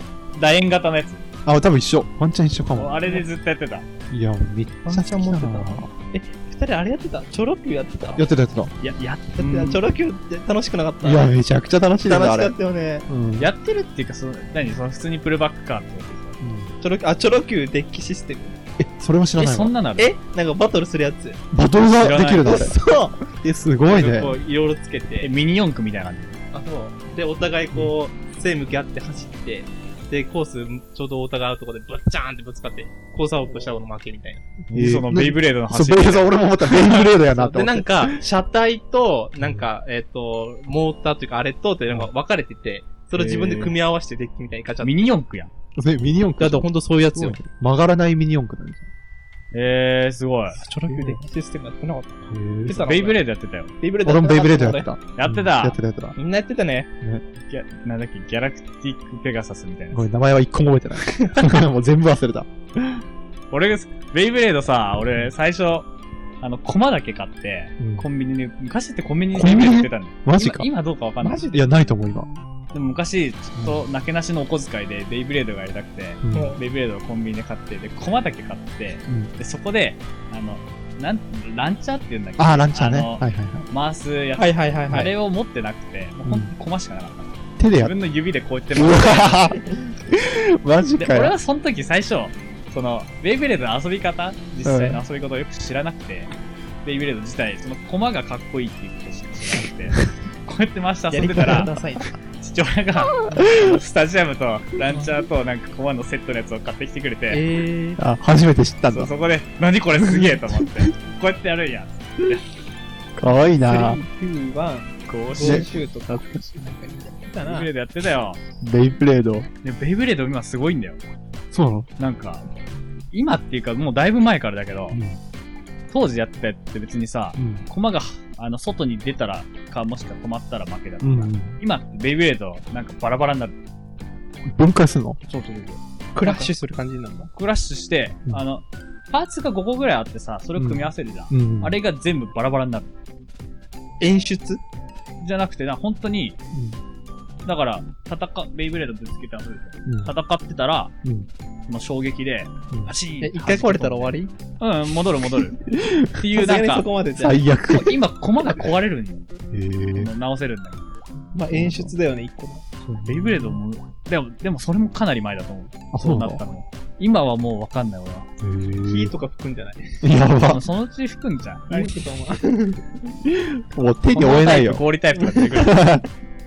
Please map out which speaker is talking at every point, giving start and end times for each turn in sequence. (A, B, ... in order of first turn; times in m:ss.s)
0:00.3-0:01.2 A
0:01.4-0:03.2 B
0:02.8-0:03.9 A
0:04.1-0:05.9 B
0:04.8-0:08.3 C
0:08.2-0:08.9 B
0:08.8-0:09.8 A
0:09.3-0:11.3 C
0:11.0-0:12.5 B
0:12.0-0:13.1 C
0:13.1-0:13.5 B
0:13.4-0:16.4 A
0:16.4-0:16.7 B
0:16.8-0:18.5 C
0:18.8-0:19.7 B
0:19.4-0:20.1 A
0:20.0-0:21.4 C
0:21.5-0:22.8 B
0:22.0-0:22.6 A
0:22.4-0:23.2 C
0:23.3-0:24.4 B
0:23.8-0:25.3 C
0:25.2-0:26.4 A
0:26.5-0:34.5 C
0:34.7-0:38.2 B
0:34.7-0:36.3 A
0:36.6-0:45.1 C
0:39.4-0:39.6 B
0:43.1-0:43.8 A
0:44.8-0:45.5 A
0:45.8-0:48.9 B
0:46.4-0:47.4 C
0:49.5-0:50.6 A
0:50.5-0:53.2 C
0:50.9-0:51.2 B
0:52.3-0:52.9 B
0:52.7-0:53.7 A
0:53.8-0:54.9 C
0:54.0-0:56.2 B
0:55.2-0:55.8 A
0:56.2-0:56.9 C
0:57.4-1:00.0 A
0:59.9-1:03.0 B
1:01.1-1:01.4 C
1:03.5-1:05.9 A
1:06.4-1:11.9 A
1:07.8-1:08.1 B
1:09.3-1:10.7 B
1:11.2-1:12.3 B
1:11.2-1:11.6 C
1:12.7-1:29.4 A
1:13.6-1:13.8 B
1:16.2-1:16.6 B
1:16.3-1:16.6 C
1:22.4-1:23.7 B
1:24.4-1:25.1 C
1:26.2-1:26.5 B
1:27.6-1:27.9 B
1:28.7-1:31.3 B
1:31.0-1:36.3 A
1:34.6-1:35.0 B
1:36.8-1:41.7 A
1:41.1-1:42.1 C
1:41.3-1:41.7 B
1:42.4-1:47.4 A
1:43.3-1:43.8 B
1:47.3-1:48.0 C
1:48.0-1:49.1 B
1:48.9-1:52.4 A
1:50.0-1:50.7 B
1:53.2-1:54.0 B
1:53.6-1:57.7 C
1:55.1-1:55.7 A
1:55.4-1:55.7 B
1:57.4-1:58.4 A
1:58.6-1:59.5 B
1:59.6-2:01.0 A
2:01.5-2:01.9 B
2:02.0-2:02.5 A
2:03.1-2:05.0 A
2:04.9-2:05.2 B
2:05.9-2:13.5 A
2:07.4-2:07.6 B
2:11.0-2:11.6 B
2:14.4-2:15.2 B
2:15.2-2:16.5 A
2:16.1-2:17.3 C
2:17.3-2:22.9 A
2:20.6-2:21.8 B
2:24.0-2:24.6 C
2:25.2-2:26.4 A
2:26.5-2:26.8 B
2:27.4-2:30.9 A
2:29.8-2:30.1 B
2:31.7-2:35.6 A
2:33.2-2:34.3 C
2:35.7-2:36.2 B
2:36.2-2:36.9 A
2:36.3-2:37.5 C
2:37.2-2:38.0 B
2:37.6-2:39.2 A
2:39.5-2:40.1 B
2:39.9-2:41.0 A
2:41.3-2:42.6 C
2:41.5-2:41.9 B
2:42.8-2:43.6 B
2:43.0-2:48.3 A
2:45.9-2:46.4 B
2:48.4-2:49.1 B
2:48.8-2:49.9 C
2:50.0-2:50.7 B
2:50.4-2:51.9 A
2:51.7-2:52.8 C
2:53.2-2:56.1 B
2:54.1-2:56.0 A